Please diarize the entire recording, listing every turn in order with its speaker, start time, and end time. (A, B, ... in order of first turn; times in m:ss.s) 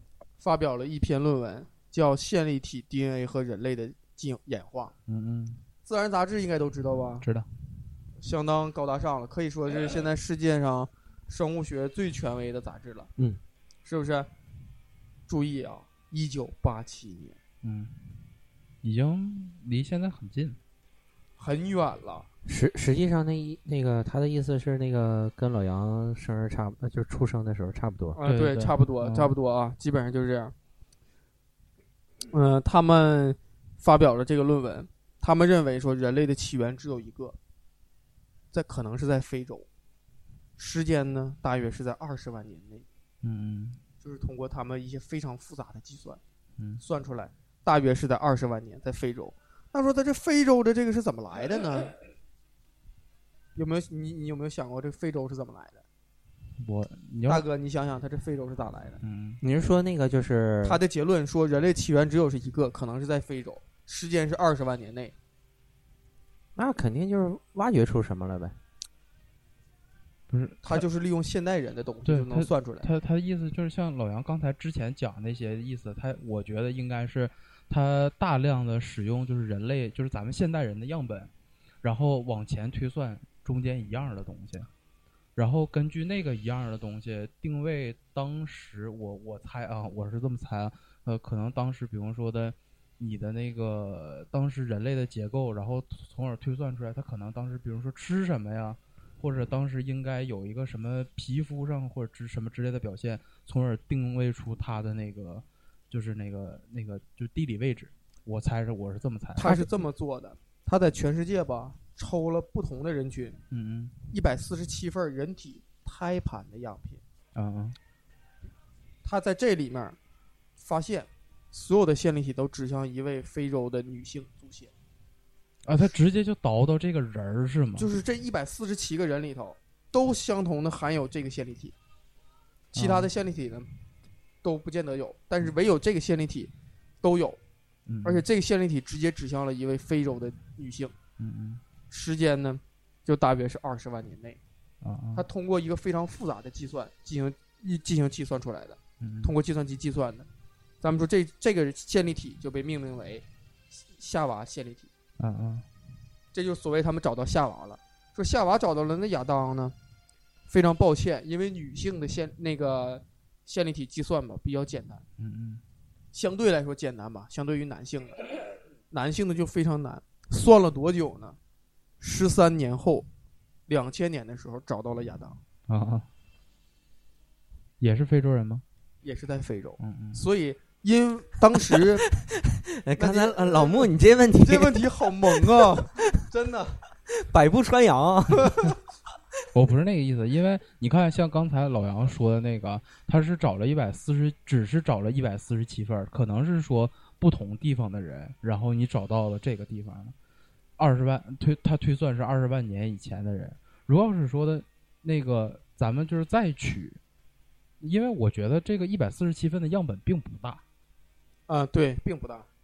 0:00.4-0:04.9 A
0:05.1-0:05.6 B
0:05.8-0:07.3 A
0:08.2-0:13.1 A
0:13.8-0:14.3 A
0:15.3-0:17.4 A
0:17.6-0:18.2 B
0:18.8-0:20.6 B
0:21.4-0:22.3 A
0:22.5-0:28.2 C
0:28.2-0:30.5 A
0:28.3-0:29.3 B
0:32.3-0:37.4 A
0:38.5-0:39.7 A
0:40.6-0:42.8 A
0:43.2-0:43.8 B
0:44.0-0:46.2 A
0:46.8-0:51.9 A
0:53.6-0:55.8 A
0:56.6-0:57.4 B
0:57.3-0:59.0 A
0:59.0-0:59.4 B
0:59.4-1:00.8 C
1:00.6-1:05.1 A
1:06.6-1:08.6 C
1:10.3-1:10.8 B
1:10.6-1:12.9 A
1:12.1-1:21.3 B
1:21.8-1:24.7 B
1:25.4-1:49.6 B
1:49.4-1:53.4 A
1:53.5-1:54.0 B
1:54.1-1:57.0 A
1:57.4-1:57.8 B
1:59.0-2:00.0 A
2:00.6-2:04.7 A
2:05.6-2:07.9 B
2:07.8-2:11.8 A
2:12.7-2:13.7 A
2:12.8-2:13.1 B
2:14.4-2:16.5 A
2:17.0-2:17.4 A
2:17.9-2:18.2 B
2:18.0-2:20.9 A
2:21.2-2:21.6 B
2:21.9-2:24.4 A
2:24.8-2:25.2 B
2:25.2-2:30.3 A
2:29.0-2:29.3 B
2:30.8-2:34.9 A
2:35.2-2:35.7 B
2:36.3-2:39.8 A
2:40.5-2:45.0 A
2:45.2-2:45.6 B
2:46.1-2:48.3 A
2:48.9-2:51.4 A
2:52.0-2:53.1 A
2:53.7-2:55.4 A
2:55.7-2:56.1 B
2:57.8-2:58.6 B
2:59.0-3:02.1 A
2:59.8-3:00.2 B
3:01.8-3:05.8 C
3:03.0-3:06.8 A
3:07.1-3:08.7 C
3:08.4-3:08.7 A
3:09.5-3:20.2 B
3:20.8-3:27.0 B
3:27.8-3:30.6 B
3:31.5-3:32.5 A